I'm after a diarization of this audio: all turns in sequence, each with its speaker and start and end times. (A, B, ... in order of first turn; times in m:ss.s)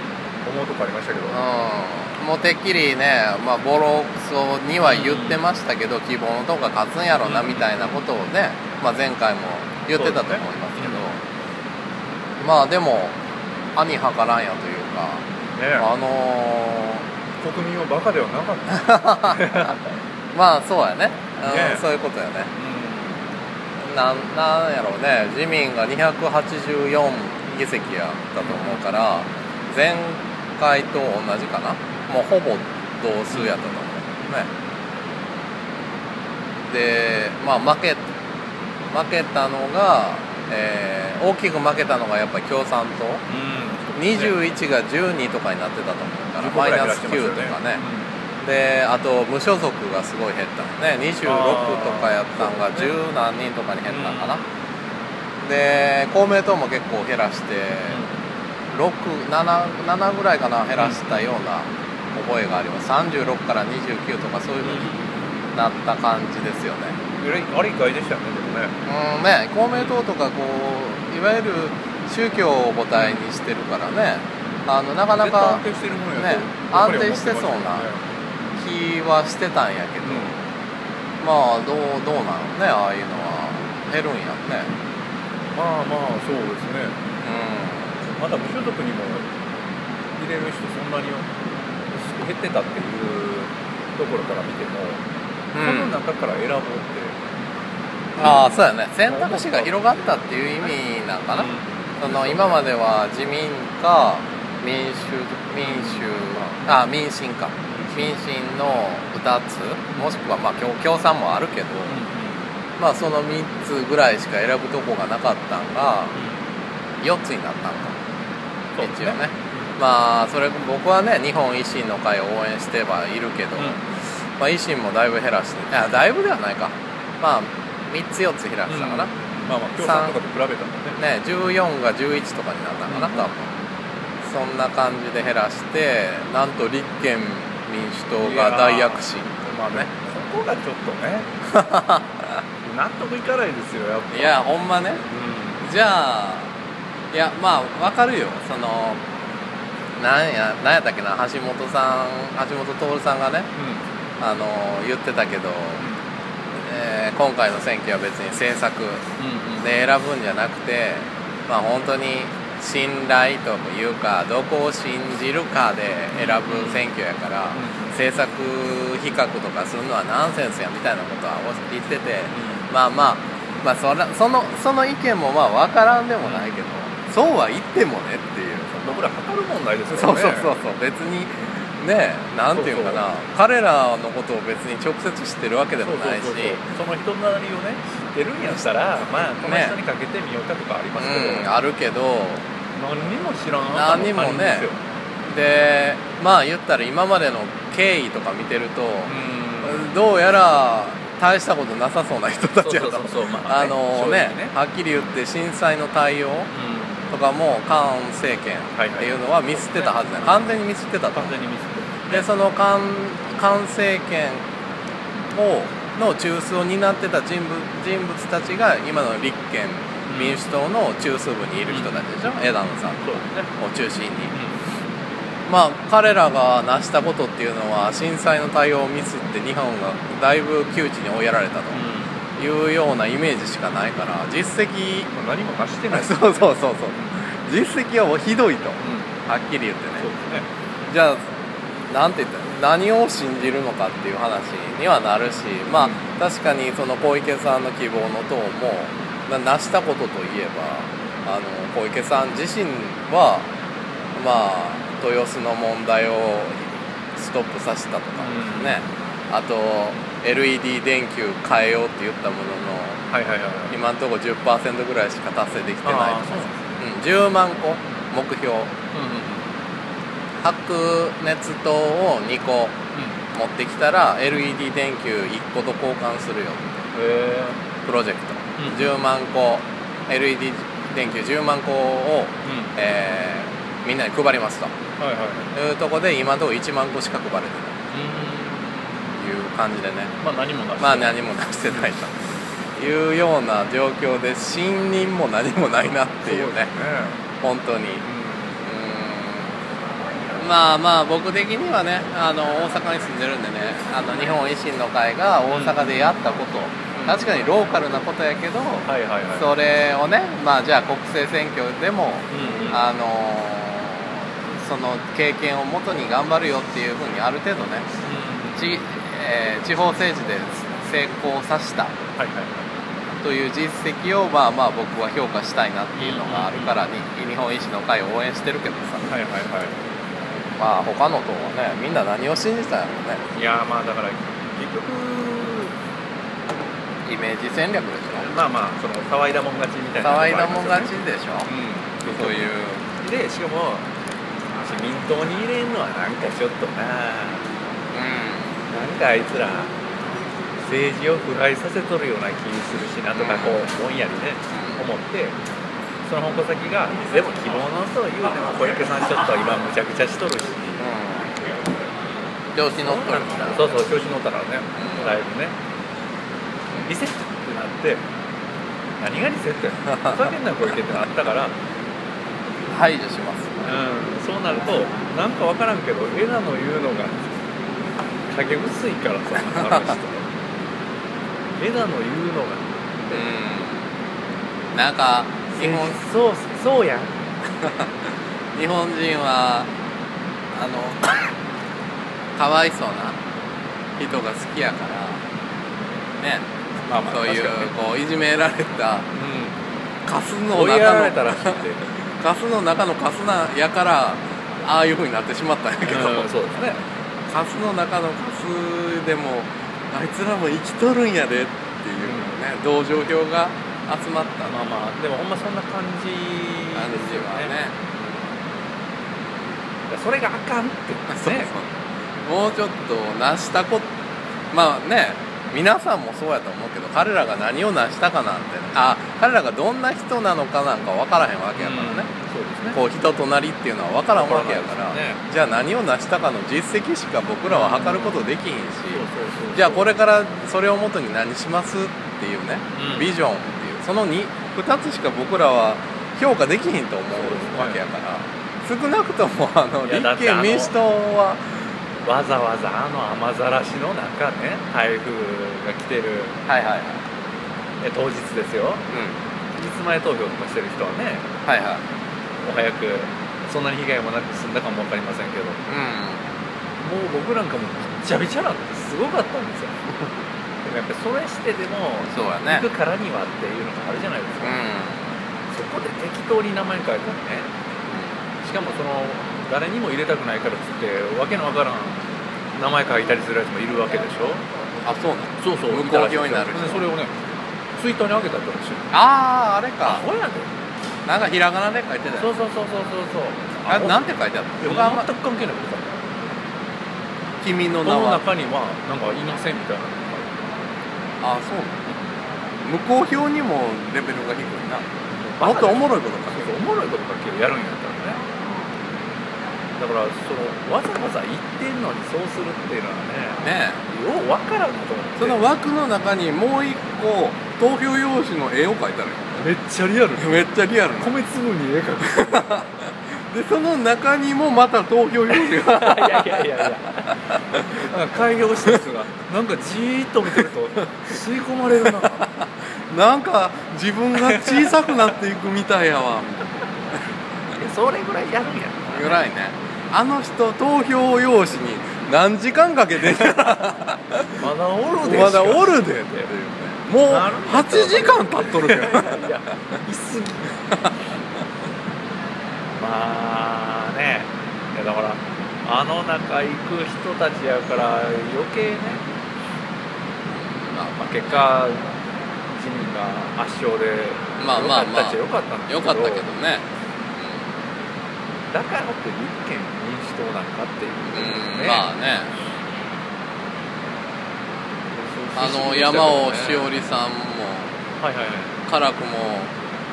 0:00.4-0:01.4 A
0:01.3-0:11.2 B
0:04.8-0:05.4 A
0:07.2-0:08.0 A
0:10.0-0:11.0 A
0:12.4-0:13.2 B
0:13.8-0:15.2 B
0:15.6-0:15.9 A
0:15.8-0:17.1 B
0:17.4-0:19.8 A
0:18.7-0:19.8 B
0:20.3-0:22.5 B
0:21.4-0:21.9 A
0:22.6-0:23.2 A
0:23.8-0:34.5 B
0:28.4-0:28.8 A
0:33.3-0:33.7 A
0:36.7-0:38.0 B
0:38.9-0:43.2 B
0:43.3-0:44.4 A
0:43.9-0:47.8 B
0:46.4-0:48.1 A
0:48.4-0:54.4 B
0:51.2-0:52.9 A
0:53.9-0:54.4 A
0:55.4-0:58.0 B
0:57.9-0:58.1 A
0:58.7-1:05.0 B
1:00.8-1:01.3 A
1:04.6-1:05.0 A
1:05.5-1:07.0 B
1:07.2-1:08.8 A
1:08.8-1:15.6 B
1:13.0-1:13.2 A
1:15.2-1:18.1 A
1:16.2-1:17.9 B
1:18.6-1:20.4 B
1:20.0-1:20.3 A
1:21.2-1:24.7 B
1:25.6-1:27.0 A
1:27.2-1:28.0 B
1:28.1-1:29.3 A
1:30.2-1:31.3 A
1:31.9-1:35.0 A
1:35.5-1:36.0 B
1:35.6-1:37.2 A
1:38.2-1:41.5 B
1:38.2-1:40.0 A
1:41.3-1:42.6 A
1:42.0-1:52.0 B
1:45.6-1:46.6 A
1:47.7-1:48.1 A
1:51.9-1:52.5 A
1:52.8-1:56.1 B
1:56.2-1:56.4 A
1:57.0-1:58.0 B
1:58.8-1:59.7 A
1:58.8-2:09.1 B
2:03.6-2:03.8 A
2:08.7-2:11.0 A
2:09.8-2:10.2 B
2:11.0-2:13.5 B
2:12.9-2:13.3 A
2:14.2-2:19.9 B
2:18.2-2:21.3 A
2:21.5-2:22.3 B
2:22.6-2:24.4 A
2:24.1-2:25.1 B
2:25.1-2:25.6 A
2:25.6-2:26.5 B
2:27.1-2:29.0 B
2:30.0-2:33.5 B
2:33.6-2:33.8 A
2:34.2-2:35.8 B
2:36.6-2:39.0 B
2:39.2-2:39.7 A
2:39.6-2:58.9 B
2:46.1-2:46.9 A
2:47.5-2:48.0 A
2:52.3-2:52.7 A
2:56.2-2:56.6 A
2:58.8-3:00.5 A
2:59.9-3:06.6 B
3:02.5-3:03.1 A
3:05.8-3:11.5 A
3:09.4-3:09.8 B
3:11.0-3:12.4 B
3:12.8-3:14.8 A
3:13.7-3:14.7 B
3:15.3-3:26.5 B
3:19.1-3:19.9 A
3:22.6-3:25.0 A
3:26.5-3:27.2 A
3:27.1-3:31.4 B
3:28.8-3:30.4 A
3:31.1-3:32.3 A
3:32.1-3:34.4 B
3:35.3-3:44.3 B
3:40.1-3:40.4 A
3:41.7-3:42.0 A
3:43.0-3:43.5 A
3:44.3-3:44.6 A
3:45.5-3:51.8 B
3:51.7-3:52.2 A
3:52.4-3:55.1 B
3:55.1-3:57.1 A
3:55.9-4:00.1 B
3:58.8-3:59.1 A
4:00.0-4:00.5 A
4:00.9-4:01.3 B
4:01.9-4:13.5 B
4:05.8-4:06.1 A
4:14.2-4:23.0 B
4:18.2-4:18.8 A
4:23.1-4:23.7 A
4:23.7-4:28.7 B
4:25.8-4:26.7 A
4:28.9-4:29.5 A
4:30.4-4:32.8 B
4:33.3-4:36.6 B
4:36.9-4:37.6 A
4:37.8-4:44.7 B
4:38.6-4:38.9 A
4:42.4-4:42.7 A
4:45.0-4:45.5 A
4:45.5-4:47.8 B
4:47.9-4:49.0 A
4:49.2-4:50.1 B
4:50.2-4:51.2 A
4:50.8-4:56.7 B
4:56.3-4:57.2 A
4:57.4-4:58.1 B
4:58.0-4:58.6 A
4:58.6-4:59.6 B
5:00.4-5:17.9 B
5:05.5-5:06.2 A
5:08.9-5:09.5 A
5:12.3-5:12.8 A
5:18.0-5:18.6 A
5:18.6-5:21.9 B
5:22.2-5:22.7 A
5:23.2-5:29.1 B
5:26.0-5:26.8 A
5:29.1-5:29.8 A
5:30.6-5:33.2 B
5:33.3-5:35.7 A
5:37.1-5:38.3 B
5:38.2-5:40.9 A
5:40.0-5:41.5 B
5:41.5-5:43.9 A
5:42.1-5:42.8 B
5:44.5-5:47.5 A
5:47.9-5:48.6 B
5:48.7-5:49.7 A
5:50.6-5:55.4 A
5:53.2-5:53.7 B
5:54.5-5:54.8 B
5:56.1-6:00.8 A
6:00.8-6:01.4 B
6:02.6-6:03.7 B
6:02.8-6:05.6 A
6:04.8-6:05.1 B
6:06.8-6:08.0 A
6:09.0-6:11.6 A
6:12.7-6:13.7 B
6:13.6-6:17.2 A
6:18.3-6:20.3 A
6:21.6-6:23.3 A
6:23.1-6:23.8 B
6:24.7-6:26.0 B
6:25.5-6:27.2 A
6:28.6-6:29.7 B
6:30.5-6:31.3 B
6:32.4-6:33.2 B
6:34.0-6:35.2 B
6:36.2-6:36.5 B
6:36.9-6:37.7 A
6:37.1-6:39.1 B
6:39.1-6:39.6 A
6:40.1-6:41.6 B
6:40.5-6:41.8 A
6:42.2-6:46.3 B
6:45.8-6:46.8 A
6:47.3-6:54.6 B
6:52.0-6:52.3 A
6:54.4-6:57.5 A
6:56.7-6:57.8 B
6:59.9-7:01.5 A
7:01.1-7:03.9 B
7:04.5-7:12.1 B
7:11.6-7:12.8 A
7:12.7-7:31.4 B
7:14.1-7:15.2 A
7:17.5-7:18.2 A
7:18.9-7:19.9 A
7:22.7-7:23.1 A
7:27.2-7:27.8 A
7:29.8-7:30.8 A
7:32.0-7:36.4 A
7:36.5-7:37.0 B
7:37.8-7:38.8 A
7:38.9-7:39.2 B
7:39.6-7:41.3 A
7:41.4-7:41.8 B
7:42.4-7:45.6 A
7:45.7-7:46.3 B
7:46.8-7:49.8 A
7:50.6-7:54.6 A
7:52.1-7:52.7 B
7:54.4-7:55.1 B
7:55.5-7:57.5 A
7:57.9-7:58.2 B
7:58.4-8:04.4 A
8:04.8-8:06.9 B
8:05.4-8:08.9 A
8:08.9-8:10.0 B
8:09.8-8:10.5 A
8:11.1-8:12.3 B
8:12.2-8:14.0 A
8:13.7-8:15.1 B
8:14.6-8:16.0 A
8:17.4-8:18.2 B
8:17.8-8:20.3 A
8:21.2-8:21.8 B
8:22.6-8:26.5 B
8:25.2-8:28.3 A
8:29.8-8:35.4 A
8:33.4-8:33.8 B
8:35.2-8:39.4 B
8:39.4-8:42.7 A
8:40.2-8:41.2 B
8:42.1-8:42.8 B
8:43.3-8:46.7 B
8:45.3-8:52.2 A
8:47.2-8:47.8 B
8:50.4-8:51.0 B
8:51.8-8:56.7 B
8:54.2-8:55.0 A
8:57.6-8:59.2 A
8:58.9-9:04.5 B
9:04.4-9:06.3 A
9:05.0-9:09.3 B
9:07.0-9:10.5 A
9:12.8-9:19.0 A
9:20.5-9:21.5 B
9:21.0-9:21.9 A
9:22.5-9:26.3 A
9:24.4-9:26.7 B
9:28.5-9:31.9 A
9:31.1-9:32.3 B
9:34.9-9:36.7 A
9:35.4-9:37.8 B
9:38.0-9:38.6 A
9:38.7-9:39.5 B